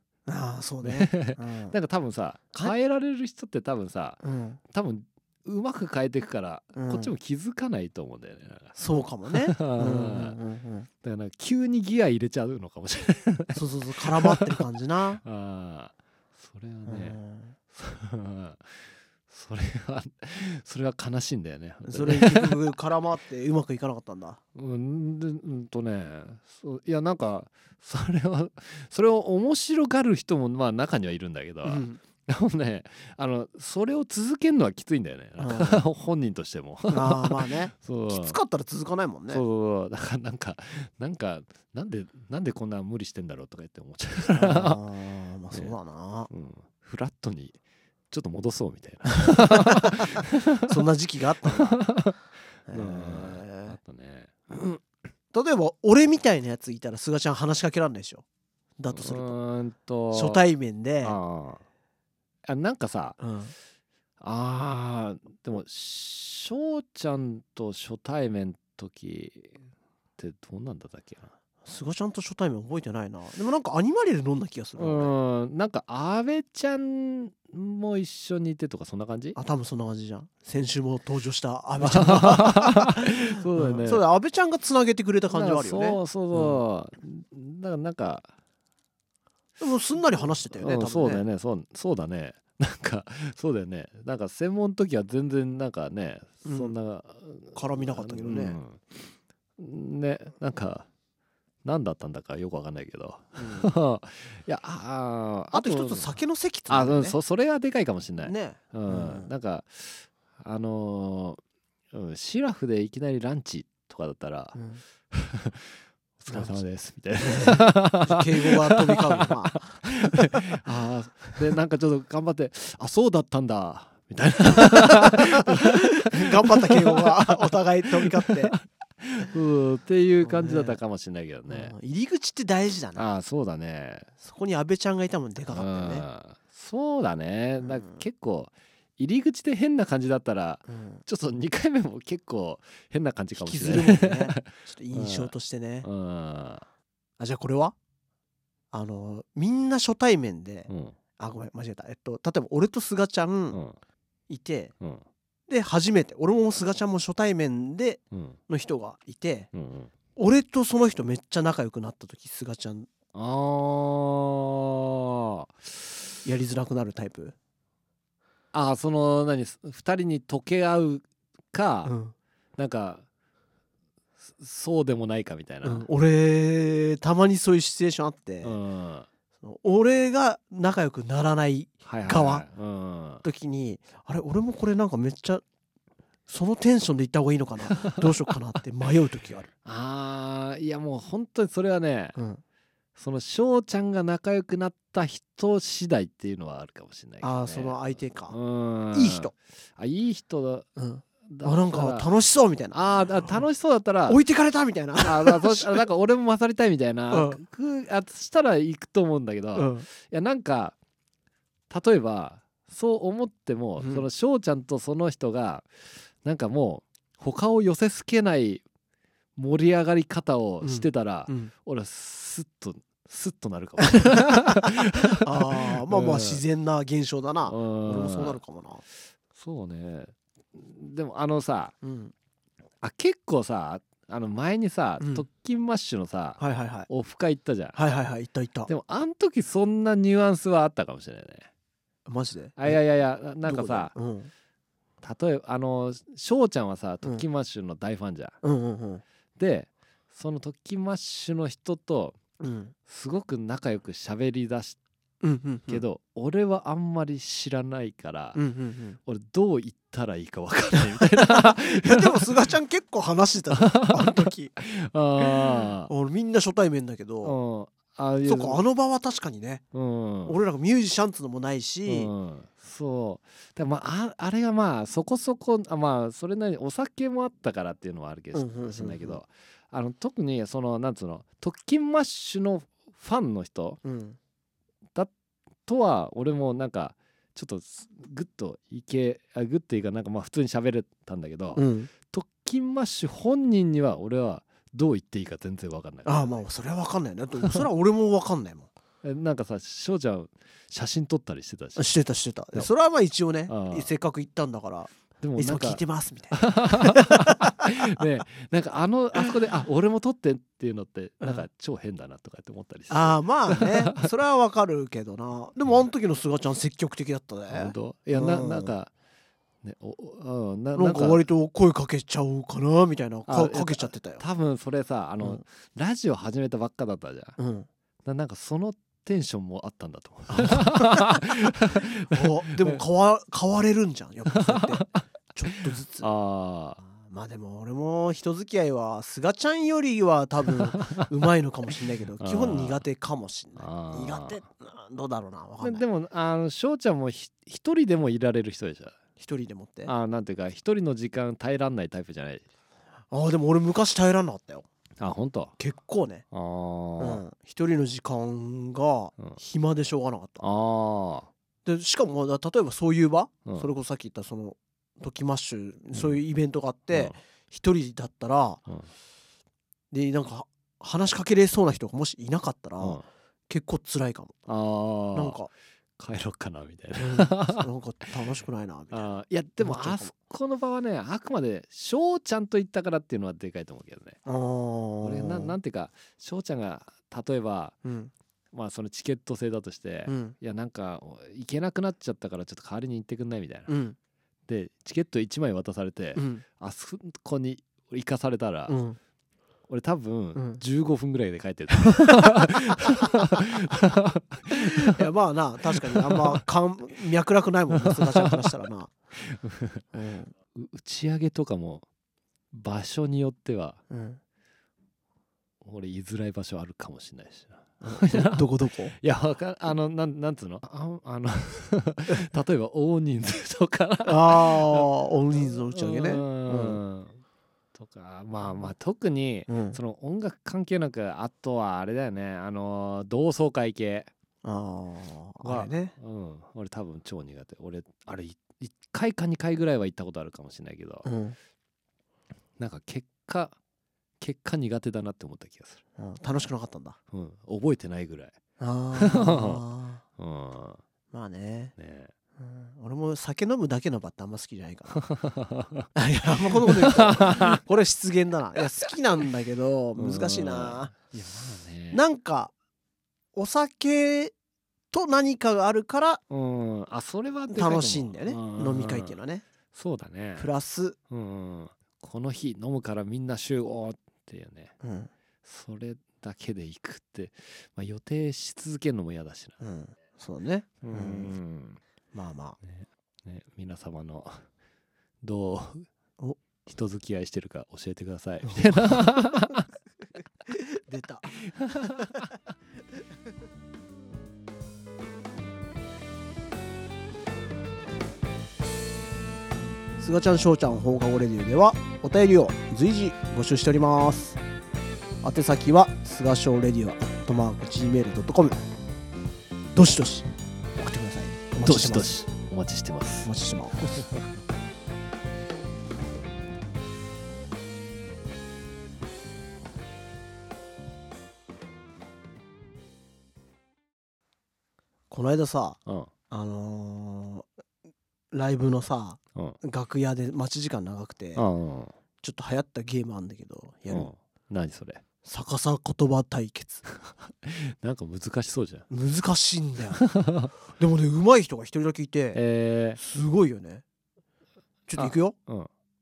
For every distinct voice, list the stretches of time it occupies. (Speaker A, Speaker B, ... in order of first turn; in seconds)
Speaker A: 0.3-1.8, 4.2-4.6, 6.7-7.1, 8.8-10.9, 13.5-15.2, 16.9-17.5, 21.8-24.4, 31.6-32.0, 35.4-35.8, 36.9-39.4, 44.3-46.3, 49.1-51.8, 52.7-53.8, 55.3-58.2, 58.8-59.4, 60.1-61.2, 63.2-63.5, 71.6-75.1, 79.3-86.6, 89.6-91.2, 96.4-96.8, 97.5-98.6, 103.4-103.7, 105.5-107.2, 108.2-109.3, 114.5-114.8, 116.3-116.6, 117.2-120.6, 124.5-128.6, 130.2-130.8, 131.5-133.1, 134.2-136.1, 137.6-138.0, 140.7-141.0, 143.4-145.9, 147.2-147.8, 148.7-153.6, 154.3-154.7, 155.5-159.5, 160.2-162.9, 166.2-167.3, 171.8-172.1, 175.6-178.6, 179.4-182.4, 183.2-185.4, 186.3-189.5, 192.2-192.4, 197.2-198.4, 198.9-199.3, 200.8-203.4, 204.1-205.8, 207.1-207.4, 209.5-209.8, 213.8-214.1, 220.6-221.5, 223.8-228.8, 231.8-232.1, 235.0-235.2, 236.4-236.9, 237.7-238.7, 242.1-242.8, 243.4-244.3, 248.4-249.0, 252.4-252.7, 255.2-255.8, 258.3-259.0, 261.0-264.5, 265.2-267.4, 268.2-269.6, 270.2-272.1, 278.3-279.2, 283.8-284.2, 291.5-291.9, 296.0-298.7, 301.8-308.0, 312.9-318.7, 320.7-324.2, 327.4-327.7, 330.3-336.1, 336.8-345.8, 349.2-349.9, 353.1-354.6, 355.6-356.2, 357.0-360.4, 361.6-368.6, 369.9-374.3, 375.1-375.5, 376.9-380.1, 384.2-385.5, 387.8-388.1, 390.1-390.3, 393.7-393.9, 396.1-396.4, 398.7-399.0, 400.3-400.6, 402.0-402.9, 404.5-408.9, 409.9-410.3, 413.9-414.2, 417.8-418.9, 424.0-426.8, 429.5-429.8, 434.4-435.9, 441.0-441.4, 446.0-447.0, 448.6-450.0, 451.1-451.7, 452.4-455.0, 455.9-460.9, 461.9-462.5, 463.3-464.3, 464.9-466.2, 467.5-469.4, 470.4-471.0, 474.8-475.1, 479.6-481.4, 482.1-482.6, 488.5-489.2, 490.5-492.3, 500.0-504.4, 505.2-508.6, 509.7-512.1, 513.2-514.0, 525.1-527.5, 528.3-531.4, 532.2-534.1, 535.2-536.9, 538.9-540.0, 540.8-542.4, 543.0-543.8, 544.9-545.4
Speaker B: 0.8-8.8, 9.3-10.4, 11.0-14.6, 15.2-17.2, 17.7-22.6, 24.5-38.4, 39.3-44.8, 46.3-47.6, 48.1-50.8, 51.4-52.2, 52.7-54.7, 58.9-60.4, 61.0-61.6, 62.5-63.2, 64.2-69.5, 70.2-71.3, 74.8-79.4, 81.8-84.0, 85.3-88.3, 90.6-100.9, 101.6-106.1, 106.7-111.4, 111.9-114.6, 115.1-131.7, 132.9-134.1, 135.5-145.3, 145.8-146.6, 150.7-150.9, 158.1-158.4, 159.5-159.9, 163.1-165.9, 168.5-171.9, 172.6-173.0, 174.3-175.9, 178.4-179.1, 181.8-183.2, 189.6-192.2, 192.9-197.8, 198.3-200.7, 201.2-202.1, 202.7-204.2, 205.0-210.7, 211.7-215.7, 216.2-218.6, 219.3-226.4, 227.4-228.4, 229.3-231.7, 232.8-237.8, 238.7-241.5, 242.6-243.9, 245.0-248.3, 249.4-252.2, 252.9-254.8, 255.7-258.4, 259.1-262.3, 263.5-265.9, 267.2-268.6, 269.7-270.4, 271.9-283.8, 285.7-296.3, 299.0-301.8, 303.5-303.9, 305.2-314.0, 317.5-318.9, 319.6-321.2, 323.3-327.4, 328.0-332.8, 334.3-335.0, 335.7-336.8, 340.6-341.0, 342.2-342.8, 343.6-344.4, 345.6-349.0, 349.9-352.4, 355.0-355.6, 356.3-357.2, 360.4-361.3, 374.5-375.4, 376.0-377.7, 378.9-384.2, 385.0-387.8, 388.5-393.7, 394.5-398.8, 399.7-405.0, 405.9-406.4, 407.8-408.4, 409.2-409.8, 410.5-411.8, 412.5-413.8, 415.6-427.2, 427.7-434.1, 435.4-441.1, 442.6-443.6, 444.2-445.8, 447.1-448.4, 448.9-449.6, 450.2-450.8, 451.8-452.1, 455.1-455.9, 456.6-457.6, 459.9-462.0, 466.3-469.1, 469.7-470.5, 471.1-474.7, 475.4-479.6, 480.8-481.8, 482.7-484.4, 485.2-485.9, 486.6-489.7, 491.6-492.2, 511.6-513.3, 525.9-526.1, 531.4-531.9, 533.9-535.0, 537.0-538.9, 540.0-540.5, 542.3-543.0, 545.0-545.7